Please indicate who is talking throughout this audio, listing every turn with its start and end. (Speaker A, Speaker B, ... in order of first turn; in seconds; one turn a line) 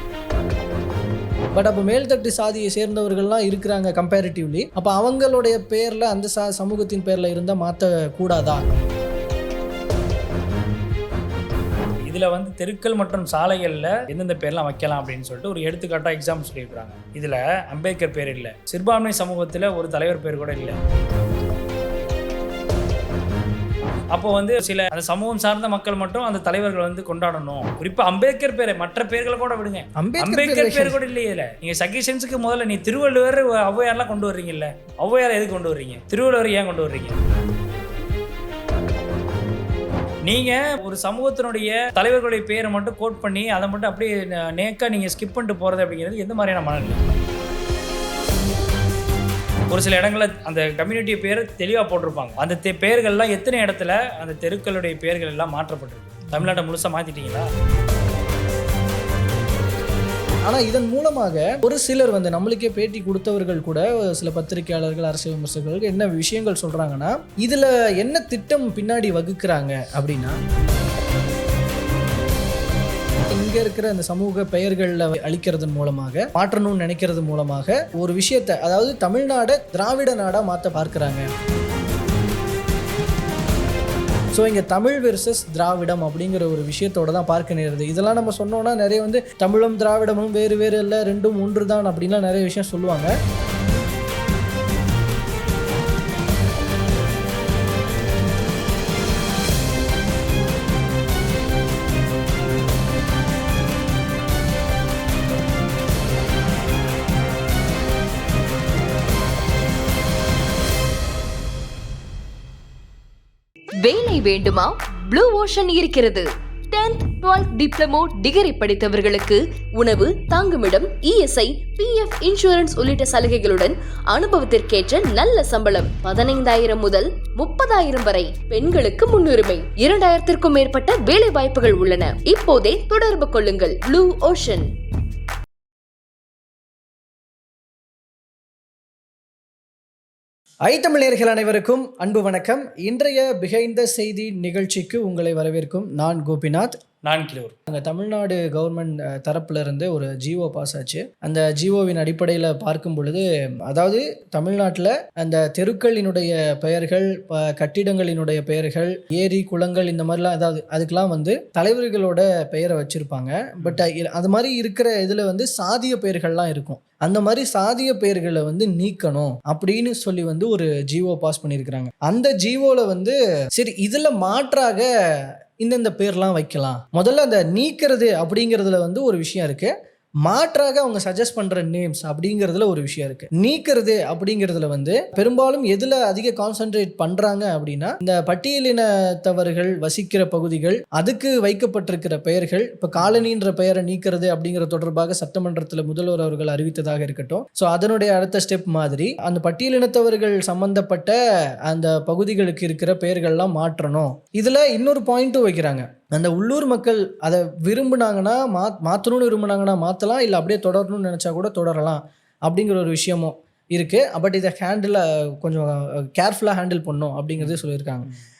Speaker A: 1.5-8.6
Speaker B: 12.1-20.8
Speaker B: 24.1-37.2
Speaker A: 30.0-31.0
Speaker B: 40.2-47.0
Speaker B: 49.7-57.5
Speaker A: 60.4-70.4
Speaker A: 73.3-81.3
Speaker A: 84.3-93.1
Speaker C: 113.8-134.7
Speaker A: 140.7-146.8
Speaker B: 147.0-147.6
Speaker A: 147.7-174.9
Speaker A: 175.6-179.7
Speaker A: 180.2-201.2
Speaker A: 201.7-218.1
Speaker B: 217.4-217.7